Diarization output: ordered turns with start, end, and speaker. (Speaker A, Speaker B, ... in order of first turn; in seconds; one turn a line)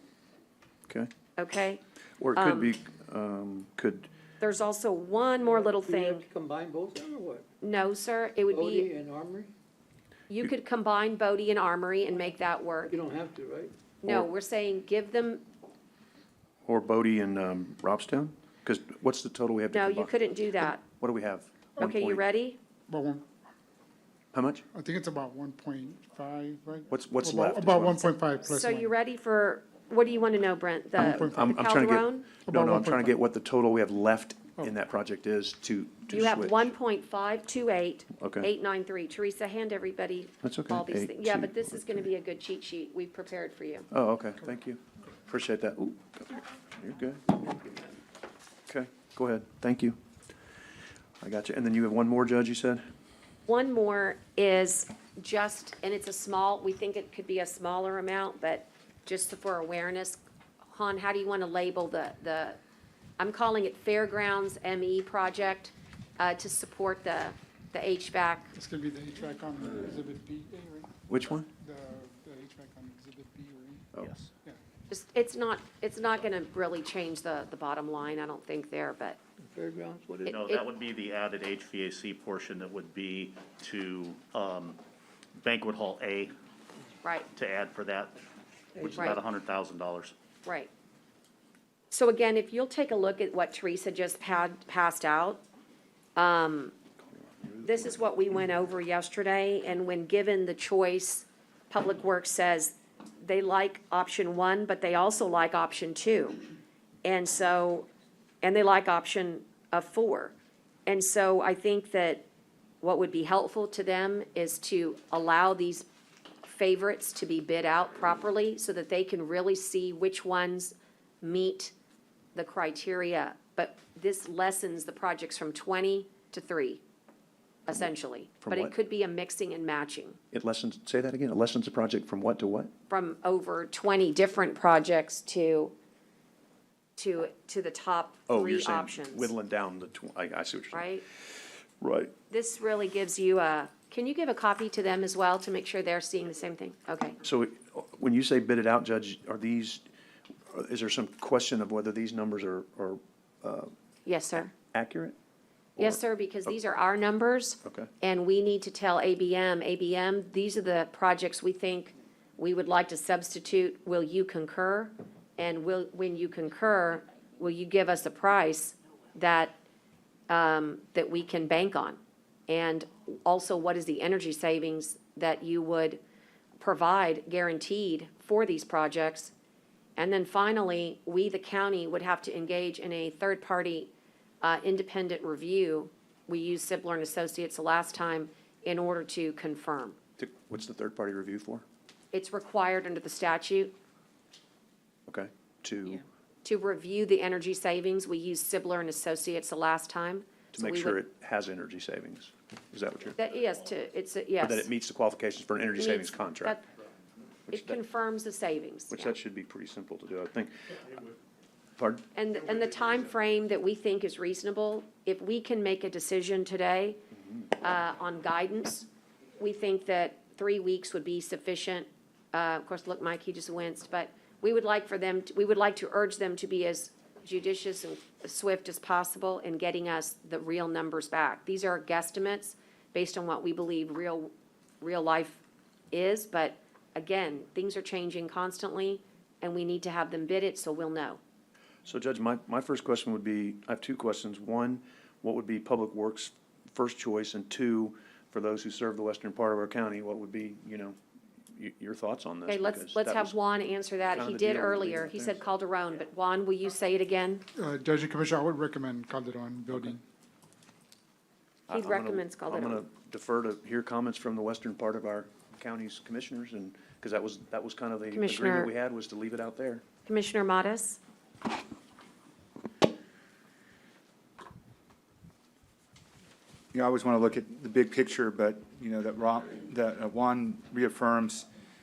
Speaker A: 1.4-1.8
Speaker B: 2.2-4.1
Speaker A: 2.4-2.7
Speaker A: 4.4-6.3
Speaker C: 5.5-7.5
Speaker A: 7.6-8.9
Speaker C: 8.5-9.5
Speaker A: 10.3-13.0
Speaker C: 12.9-13.7
Speaker A: 14.0-15.4
Speaker B: 16.6-22.2
Speaker A: 19.7-20.8
Speaker A: 21.8-22.6
Speaker D: 22.9-23.3
Speaker B: 24.3-24.6
Speaker D: 24.7-28.9
Speaker B: 26.9-28.1
Speaker A: 28.4-32.3
Speaker B: 31.0-36.7
Speaker D: 31.1-31.5
Speaker D: 32.5-33.1
Speaker A: 36.1-43.9
Speaker B: 38.2-38.5
Speaker B: 40.4-41.8
Speaker B: 43.9-47.5
Speaker B: 48.7-50.0
Speaker B: 51.2-52.9
Speaker A: 53.5-60.2
Speaker A: 60.7-62.6
Speaker A: 63.2-68.5
Speaker D: 68.5-71.0
Speaker B: 71.1-71.5
Speaker D: 71.5-73.9
Speaker B: 73.9-74.3
Speaker A: 74.9-79.2
Speaker C: 79.5-80.4
Speaker A: 80.2-80.7
Speaker E: 80.3-84.8
Speaker E: 85.3-86.3
Speaker E: 87.3-88.2
Speaker E: 88.8-90.1
Speaker C: 88.8-89.2
Speaker A: 90.5-90.7
Speaker A: 91.9-95.4
Speaker A: 96.2-96.7
Speaker B: 97.1-98.0
Speaker A: 97.6-106.5
Speaker A: 107.0-107.9
Speaker A: 108.4-110.3
Speaker A: 110.9-112.2
Speaker A: 112.8-115.9
Speaker A: 116.4-121.7
Speaker A: 122.3-126.8
Speaker A: 127.7-130.2
Speaker B: 128.4-128.7
Speaker B: 130.3-132.7
Speaker A: 132.9-135.7
Speaker A: 137.0-139.3
Speaker B: 138.3-141.2
Speaker A: 140.7-141.1
Speaker B: 141.8-142.1
Speaker A: 142.3-147.2
Speaker B: 147.2-149.8
Speaker B: 150.5-153.7
Speaker A: 154.1-154.5
Speaker B: 154.6-155.2
Speaker A: 155.8-169.6
Speaker B: 157.6-157.9
Speaker A: 170.3-176.0
Speaker A: 176.6-179.3
Speaker A: 180.0-190.0
Speaker B: 190.2-191.6
Speaker A: 192.1-193.8
Speaker B: 195.1-196.1
Speaker A: 196.4-201.0
Speaker B: 200.5-203.2
Speaker A: 203.2-204.7
Speaker B: 204.4-206.6
Speaker A: 205.8-206.7
Speaker B: 207.5-207.8
Speaker A: 207.5-209.2
Speaker B: 208.9-211.0
Speaker B: 211.8-212.1
Speaker A: 212.2-217.0
Speaker A: 217.5-218.9
Speaker A: 219.4-241.2
Speaker B: 241.8-251.0
Speaker B: 251.6-253.3
Speaker A: 252.5-257.4
Speaker B: 254.1-255.4
Speaker D: 257.6-259.9
Speaker B: 261.7-269.8
Speaker A: 261.7-262.9
Speaker A: 268.1-268.7
Speaker A: 270.1-271.0
Speaker F: 276.7-281.5